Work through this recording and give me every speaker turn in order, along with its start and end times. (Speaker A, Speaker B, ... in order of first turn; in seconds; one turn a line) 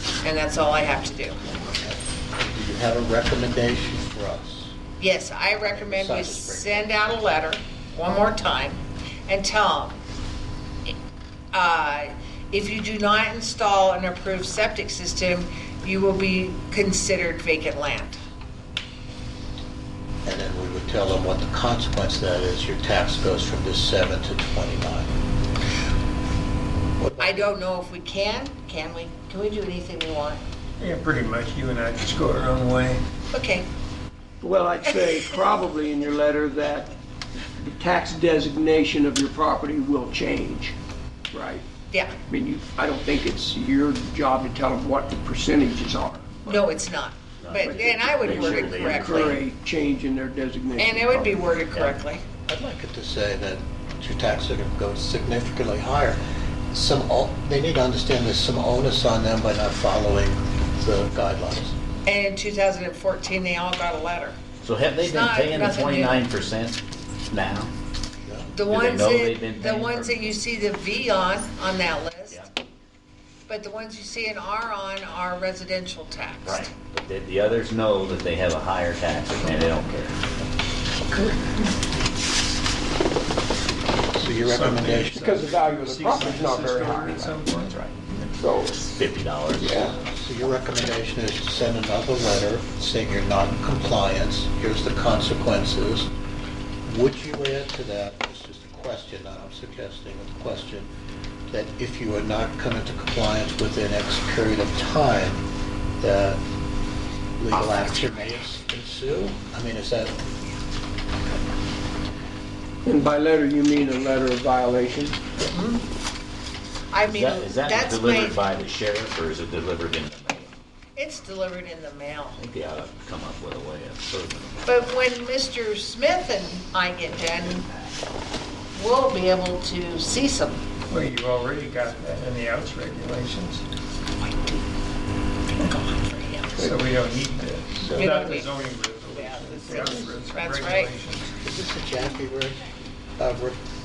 Speaker A: 0.2-1.4
Speaker B: 1.7-4.8
Speaker A: 5.0-10.0
Speaker B: 5.7-7.0
Speaker A: 11.5-18.2
Speaker B: 20.2-25.1
Speaker B: 27.0-27.5
Speaker A: 27.2-30.4
Speaker C: 30.8-33.0
Speaker A: 33.3-33.6
Speaker D: 34.4-36.9
Speaker A: 34.9-35.2
Speaker D: 37.6-40.7
Speaker D: 41.3-41.6
Speaker D: 42.3-46.6
Speaker A: 46.5-49.4
Speaker E: 47.4-49.4
Speaker D: 47.6-51.5
Speaker A: 50.8-52.2
Speaker E: 51.7-52.0
Speaker B: 52.5-56.2
Speaker B: 56.7-61.7
Speaker A: 62.0-64.4
Speaker E: 64.6-67.7
Speaker A: 65.0-66.2
Speaker A: 68.5-72.5
Speaker E: 68.6-70.3
Speaker A: 73.5-76.7
Speaker E: 76.4-80.3
Speaker B: 84.1-85.3
Speaker C: 84.2-88.3
Speaker D: 85.2-89.0
Speaker E: 88.9-89.8
Speaker D: 89.5-89.9
Speaker B: 89.9-96.1
Speaker B: 96.8-100.9
Speaker B: 101.5-105.4
Speaker B: 106.0-106.4
Speaker B: 107.4-110.2
Speaker D: 112.8-115.2
Speaker A: 115.5-115.8
Speaker A: 116.9-118.4
Speaker E: 117.0-120.5
Speaker A: 121.0-122.4
Speaker E: 122.3-124.9
Speaker A: 124.7-127.7
Speaker A: 128.7-130.6
Speaker C: 130.9-133.6
Speaker A: 134.2-134.6
Speaker A: 135.6-136.6
Speaker C: 136.6-141.4
Speaker A: 137.9-138.5
Speaker A: 139.1-140.9
Speaker B: 141.4-142.7
Speaker B: 143.2-143.6